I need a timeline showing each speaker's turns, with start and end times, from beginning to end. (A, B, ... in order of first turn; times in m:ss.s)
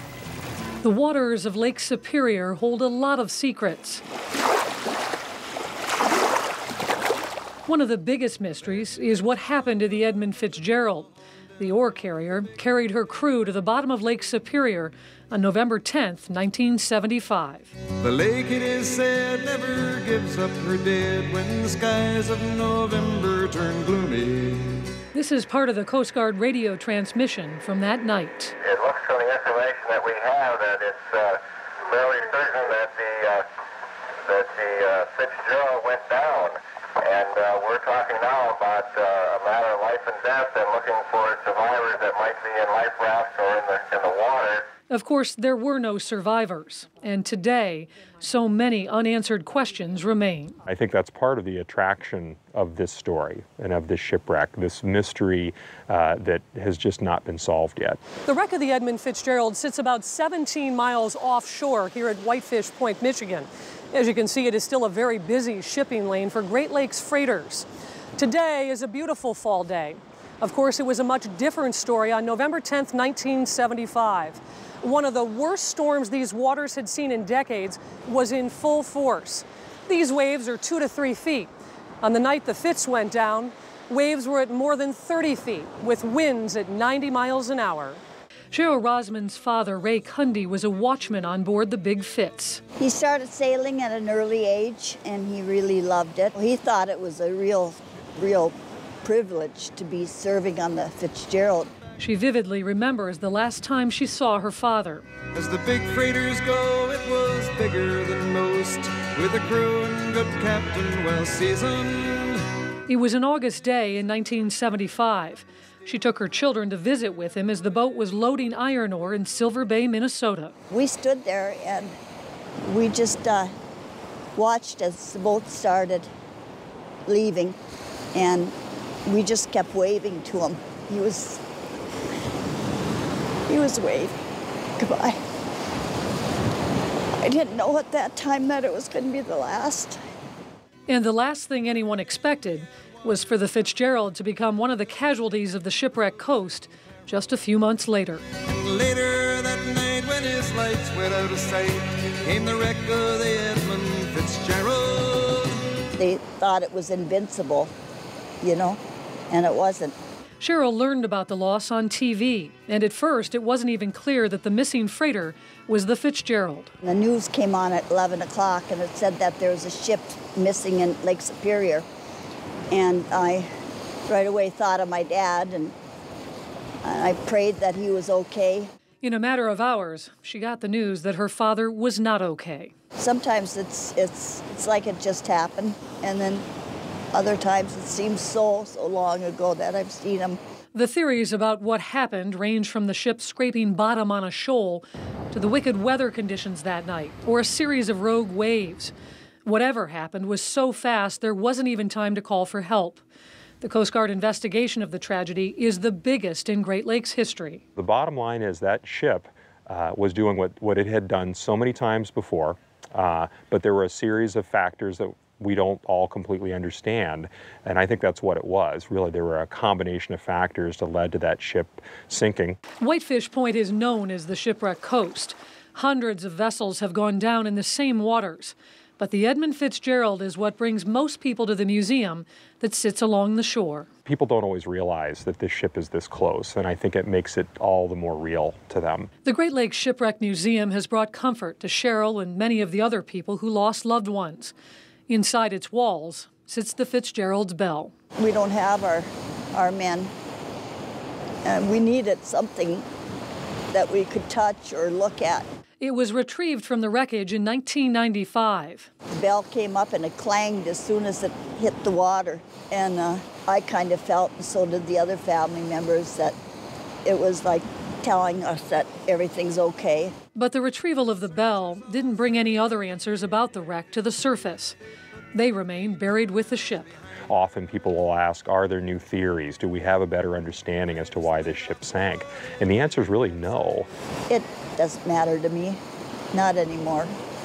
0:00.8-0:04.0 A
0:07.7-0:17.7 A
0:18.0-0:24.9 B
0:25.1-0:28.5 A
0:28.6-0:33.4 C
0:34.2-0:44.6 C
0:44.9-0:50.6 A
0:50.6-0:58.0 D
0:58.2-1:21.5 A
1:22.0-1:32.6 A
1:32.8-1:41.7 E
1:42.0-1:45.0 A
1:45.3-1:52.4 B
1:52.9-2:00.5 A
2:00.7-2:02.0 E
2:02.6-2:03.5 E
2:04.4-2:06.1 E
2:07.1-2:07.6 E
2:08.1-2:08.5 E
2:09.0-2:11.4 E
2:13.5-2:14.2 E
2:14.8-2:15.2 E
2:17.2-2:20.0 E
2:20.9-2:28.2 A
2:28.6-2:35.5 B
2:36.0-2:37.7 E
2:38.4-2:39.9 E
2:40.4-2:46.7 A
2:46.8-2:51.8 E
2:52.7-2:53.5 E
2:54.1-2:55.7 E
2:56.8-2:58.7 E
2:59.0-3:02.7 A
3:03.0-3:06.4 E
3:07.1-3:10.4 E
3:10.7-3:18.9 A
3:19.4-3:23.0 A
3:23.6-3:27.6 A
3:27.8-3:42.6 D
3:42.8-3:53.9 A
3:54.0-3:59.1 D
3:59.2-4:04.5 A
4:05.1-4:07.9 A
4:08.2-4:10.1 E
4:11.4-4:12.8 E
4:13.7-4:15.4 E
4:15.8-4:18.9 A
4:19.1-4:26.3 E
4:27.0-4:30.1 E
4:30.3-4:34.8 A
4:35.3-4:36.9 A
4:37.3-4:43.9 D
4:44.3-4:45.8 E
4:46.3-4:47.2 E